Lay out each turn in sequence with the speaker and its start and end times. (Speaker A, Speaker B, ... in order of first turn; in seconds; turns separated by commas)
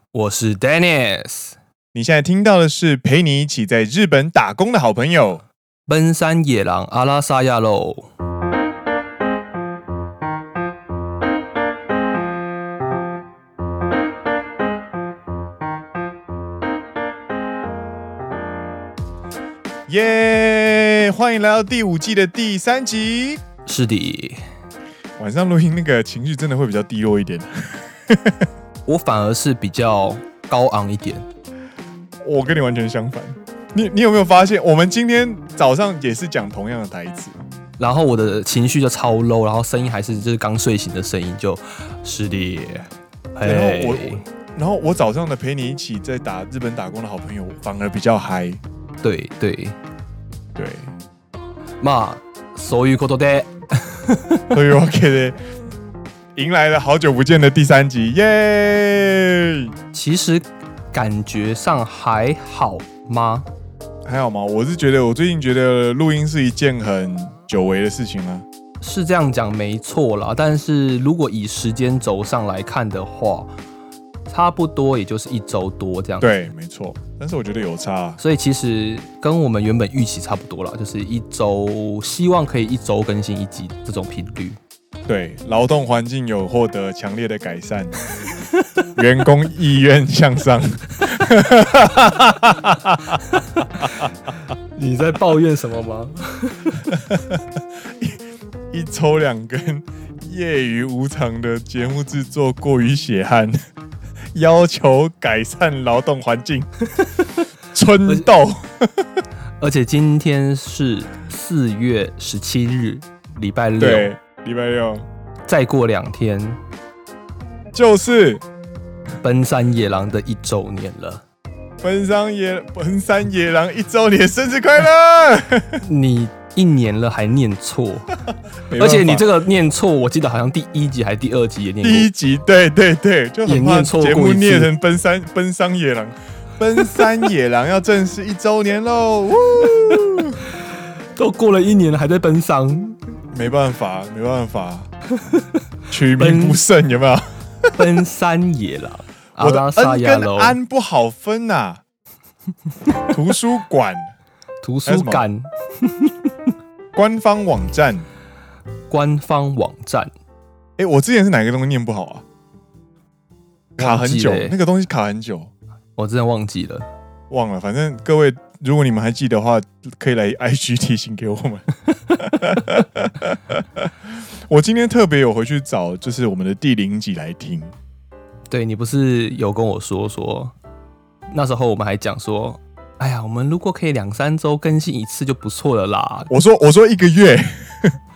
Speaker A: 0.1-1.6, Speaker B: 1.9-5.4, Speaker A: 5.9-8.1, Speaker B: 19.9-23.4, Speaker A: 23.6-24.4, Speaker B: 25.2-28.5, Speaker A: 28.9-31.2, Speaker B: 32.2-37.3, Speaker A: 37.8-44.2, Speaker B: 43.4-48.6, Speaker A: 49.0-49.8, Speaker B: 50.5-50.9, Speaker A: 51.8-54.5, Speaker B: 54.5-55.4, Speaker B: 56.4-59.7, Speaker A: 59.9-63.5, Speaker B: 64.0-68.4, Speaker A: 68.8-73.5, Speaker A: 74.3-76.3, Speaker B: 76.2-78.2, Speaker A: 78.2-84.6, Speaker B: 85.1-88.0, Speaker B: 88.9-94.1, Speaker A: 93.3-94.1, Speaker A: 94.8-96.9, Speaker B: 96.9-98.2, Speaker B: 98.7-103.5, Speaker B: 104.3-106.7, Speaker A: 107.0-107.3, Speaker B: 107.7-109.2, Speaker A: 109.6-114.1, Speaker B: 113.8-115.0, Speaker A: 115.5-116.6, Speaker B: 117.7-118.4, Speaker A: 119.2-121.2, Speaker B: 121.8-125.8, Speaker A: 125.8-128.1, Speaker B: 128.7-129.2, Speaker A: 128.7-132.1, Speaker B: 131.8-140.4, Speaker A: 133.4-134.7, Speaker A: 141.2-143.0, Speaker B: 143.3-144.9, Speaker B: 145.9-147.7, Speaker A: 146.2-146.6, Speaker A: 147.8-150.6, Speaker B: 149.4-151.8, Speaker B: 153.1-154.1, Speaker A: 154.6-156.5, Speaker B: 154.8-155.2, Speaker B: 156.9-158.0, Speaker A: 158.9-160.1, Speaker B: 160.8-162.2, Speaker B: 163.8-165.5, Speaker A: 163.8-164.6, Speaker A: 165.9-166.8, Speaker B: 167.3-177.7, Speaker A: 178.5-180.5, Speaker A: 181.3-186.3, Speaker B: 186.3-188.0